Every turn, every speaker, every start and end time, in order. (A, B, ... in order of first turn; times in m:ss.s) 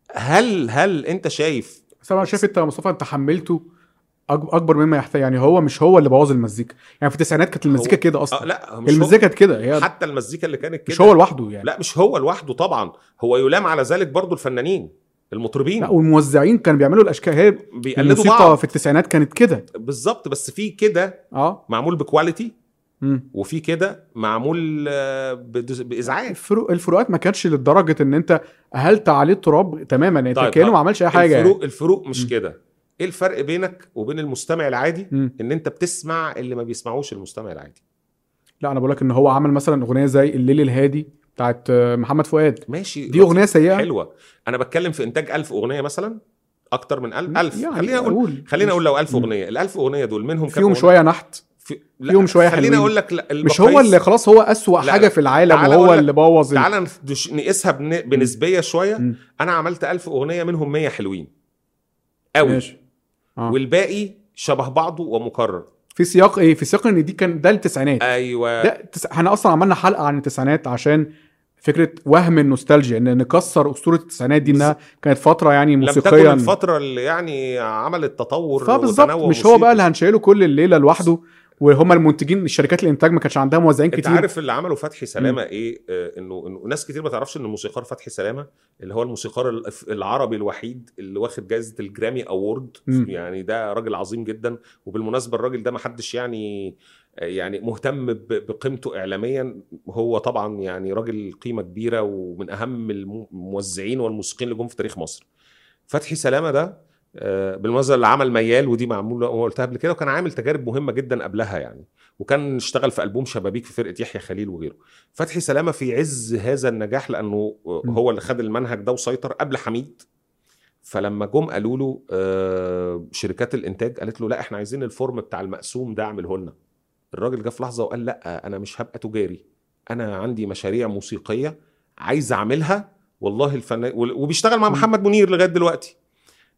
0:00.2-0:02.4 A
0:02.0-0:03.6 B
0:04.3-0:09.9 B
0:07.6-0:15.9 A
0:10.9-0:11.7 B
0:15.8-0:19.6 B
0:17.8-0:18.7 A
0:19.8-0:22.5 A
0:21.3-0:21.6 B
0:23.3-0:26.4 A
0:26.3-0:31.5 B
0:30.3-0:37.8 A
0:38.6-0:43.9 B
0:42.7-0:46.2 A
0:46.7-0:50.9 A
0:47.3-0:49.3 B
0:50.5-0:51.4 B
0:51.6-0:54.0 A
0:52.1-0:52.9 B
0:53.4-0:56.7 B
0:54.8-1:01.3 A
1:02.4-1:02.7 A
1:02.4-1:02.8 B
1:03.5-1:05.6 A
1:06.0-1:08.0 B
1:08.0-1:08.7 A
1:08.6-1:11.1 B
1:11.6-1:16.5 B
1:14.4-1:14.7 A
1:15.8-1:19.8 A
1:18.6-1:24.2 B
1:23.9-1:45.2 A
1:45.9-2:00.0 A
2:00.8-2:06.5 A
2:07.1-2:15.9 A